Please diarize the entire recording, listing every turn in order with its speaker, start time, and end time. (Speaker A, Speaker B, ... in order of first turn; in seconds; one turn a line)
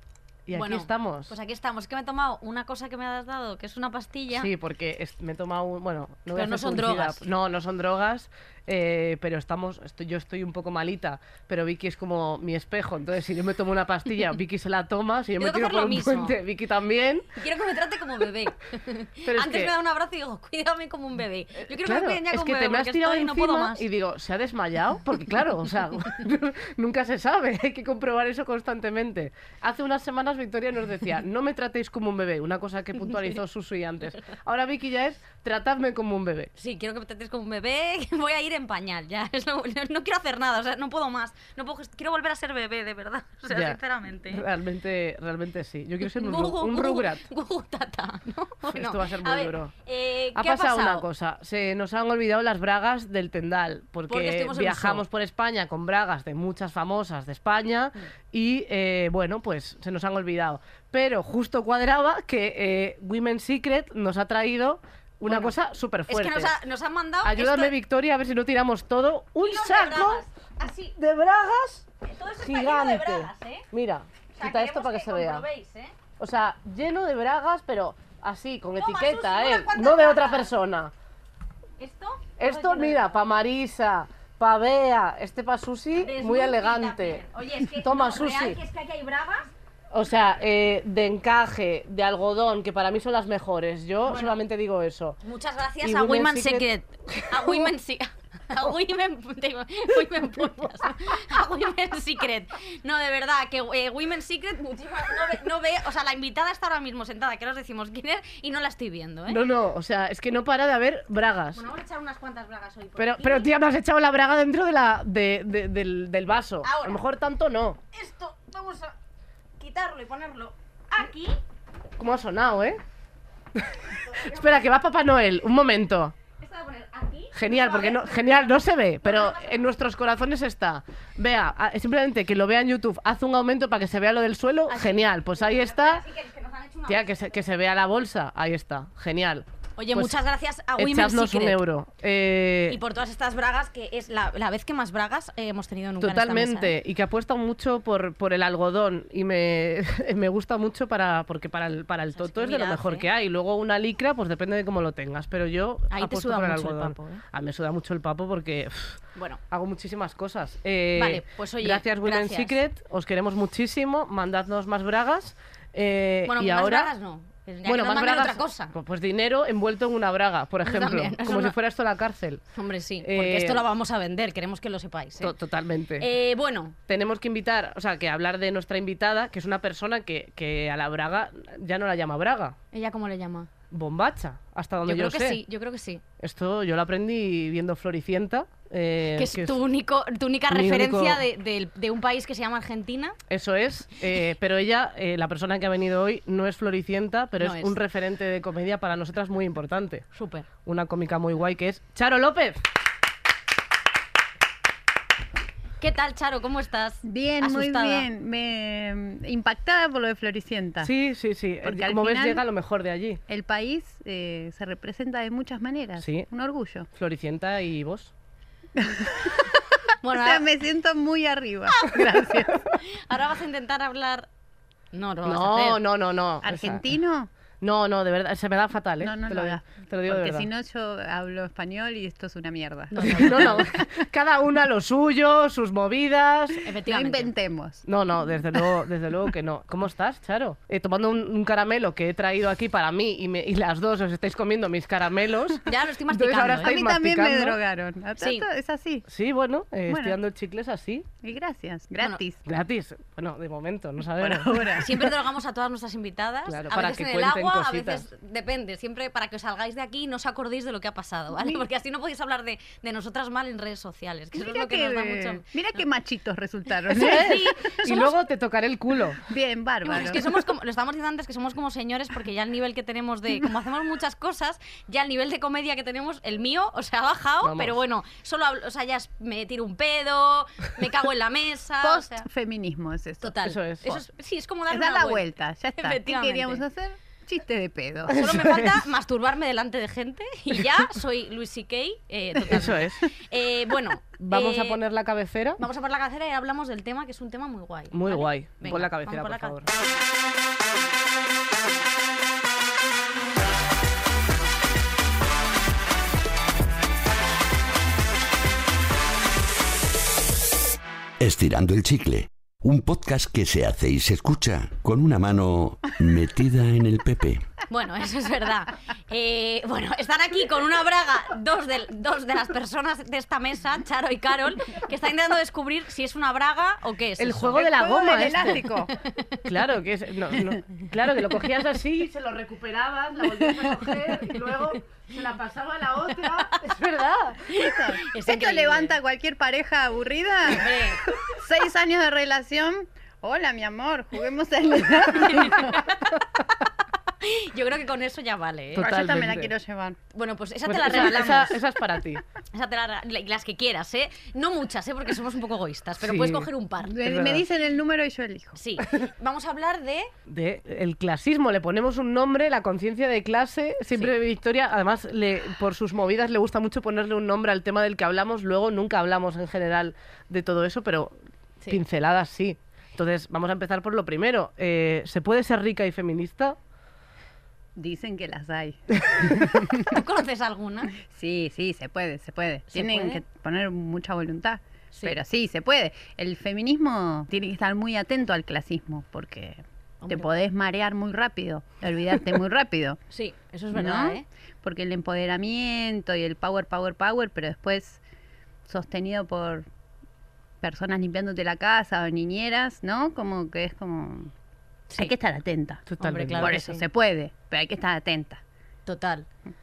Speaker A: 0.5-1.3
Speaker B: 0.5-4.5
Speaker A: 4.3-17.4
Speaker B: 6.3-7.2
Speaker B: 15.4-16.3
Speaker B: 17.4-23.9
Speaker A: 19.2-19.7
Speaker A: 21.7-36.5
Speaker B: 36.6-44.4
Speaker A: 43.5-47.2
Speaker B: 46.0-51.0
Speaker A: 48.6-49.7
Speaker A: 50.3-66.5
Speaker B: 54.1-55.0
Speaker B: 65.2-65.5
Speaker B: 66.1-67.7
Speaker A: 67.2-75.4
Speaker B: 69.4-70.9
Speaker B: 72.0-73.7
Speaker B: 74.3-75.9
Speaker A: 76.2-80.9
Speaker B: 78.8-80.5
Speaker B: 81.8-83.1
Speaker A: 82.4-87.2
Speaker B: 86.0-89.5
Speaker A: 87.7-88.6
Speaker A: 89.9-95.2
Speaker B: 94.0-94.3
Speaker B: 95.2-109.4
Speaker A: 95.8-97.7
Speaker A: 109.3-111.6
Speaker B: 111.5-113.5
Speaker A: 113.0-117.8
Speaker B: 116.6-117.0
Speaker B: 117.9-118.9
Speaker B: 119.6-121.4
Speaker A: 122.0-122.8
Speaker A: 123.5-126.1
Speaker B: 126.4-128.5
Speaker A: 127.3-136.0
Speaker B: 129.0-129.6
Speaker B: 134.7-137.3
Speaker A: 136.9-140.2
Speaker B: 139.8-141.6
Speaker A: 140.8-142.8
Speaker B: 142.7-146.7
Speaker A: 146.0-166.9
Speaker B: 152.1-153.1
Speaker B: 155.9-157.2
Speaker B: 159.1-159.4
Speaker B: 160.9-162.6
Speaker B: 166.3-168.7
Speaker A: 167.7-172.4
Speaker B: 170.6-171.6
Speaker B: 172.5-175.3
Speaker A: 173.0-173.6
Speaker A: 175.2-176.1
Speaker B: 176.0-176.8
Speaker A: 176.9-182.6
Speaker B: 182.7-183.5
Speaker A: 183.7-185.4
Speaker B: 184.8-186.0
Speaker A: 186.2-189.6
Speaker B: 189.2-193.2
Speaker A: 190.5-191.2
Speaker A: 193.3-200.1
Speaker B: 197.4-197.8
Speaker B: 200.1-200.5
Speaker A: 200.6-202.6
Speaker B: 205.8-208.1
Speaker C: 207.0-210.9
Speaker A: 210.8-213.2
Speaker C: 211.6-212.4
Speaker C: 213.3-216.9
Speaker A: 216.0-216.2
Speaker A: 216.9-218.1
Speaker C: 218.8-222.7
Speaker B: 220.0-220.4
Speaker B: 222.8-224.3
Speaker B: 224.9-225.8
Speaker A: 225.2-226.8
Speaker C: 226.4-227.3
Speaker A: 227.6-230.5
Speaker C: 229.0-233.8
Speaker B: 232.9-233.7
Speaker A: 233.0-236.6
Speaker B: 236.6-237.3
Speaker C: 236.9-237.8
Speaker A: 237.8-247.6
Speaker B: 245.6-246.7
Speaker C: 246.6-249.1
Speaker B: 248.2-248.5
Speaker A: 249.1-251.1
Speaker C: 249.9-250.1
Speaker C: 251.2-252.4
Speaker A: 252.4-254.8
Speaker C: 254.2-255.1
Speaker B: 254.7-265.4
Speaker A: 256.5-258.0
Speaker C: 261.4-261.6
Speaker C: 264.4-268.1
Speaker A: 266.9-269.2
Speaker B: 266.9-267.8
Speaker C: 269.2-270.2
Speaker B: 269.8-282.2
Speaker A: 277.4-277.8
Speaker C: 281.8-283.3
Speaker B: 283.2-285.2
Speaker A: 283.4-284.0
Speaker C: 284.7-288.3
Speaker B: 285.8-286.6
Speaker B: 288.1-294.8
Speaker A: 288.1-288.8
Speaker A: 292.5-293.0
Speaker A: 294.2-295.6
Speaker B: 295.6-299.6
Speaker A: 297.9-299.7
Speaker D: 311.2-317.5
Speaker B: 317.7-327.7
Speaker A: 327.2-328.6
Speaker C: 327.6-328.9
Speaker B: 329.0-329.4
Speaker A: 329.4-337.4
Speaker B: 336.2-336.6
Speaker B: 337.4-338.9
Speaker C: 337.5-345.8
Speaker B: 340.5-341.0
Speaker B: 345.1-346.1
Speaker B: 347.2-348.9
Speaker A: 348.7-349.5
Speaker C: 348.8-350.0
Speaker B: 350.1-351.6
Speaker A: 350.6-352.2
Speaker B: 352.5-357.3
Speaker A: 356.0-356.5
Speaker C: 356.8-358.6
Speaker A: 357.1-357.4
Speaker B: 358.5-360.1
Speaker A: 360.3-371.1
Speaker A: 371.7-376.6
Speaker C: 377.8-380.0
Speaker B: 379.7-380.9
Speaker C: 381.0-393.0
Speaker B: 382.7-383.2
Speaker B: 393.1-394.2
Speaker C: 393.7-398.0
Speaker C: 398.7-399.6
Speaker C: 400.6-404.3
Speaker C: 404.9-405.8
Speaker A: 405.9-406.6
Speaker B: 406.0-406.8
Speaker C: 406.4-408.4
Speaker B: 408.9-409.3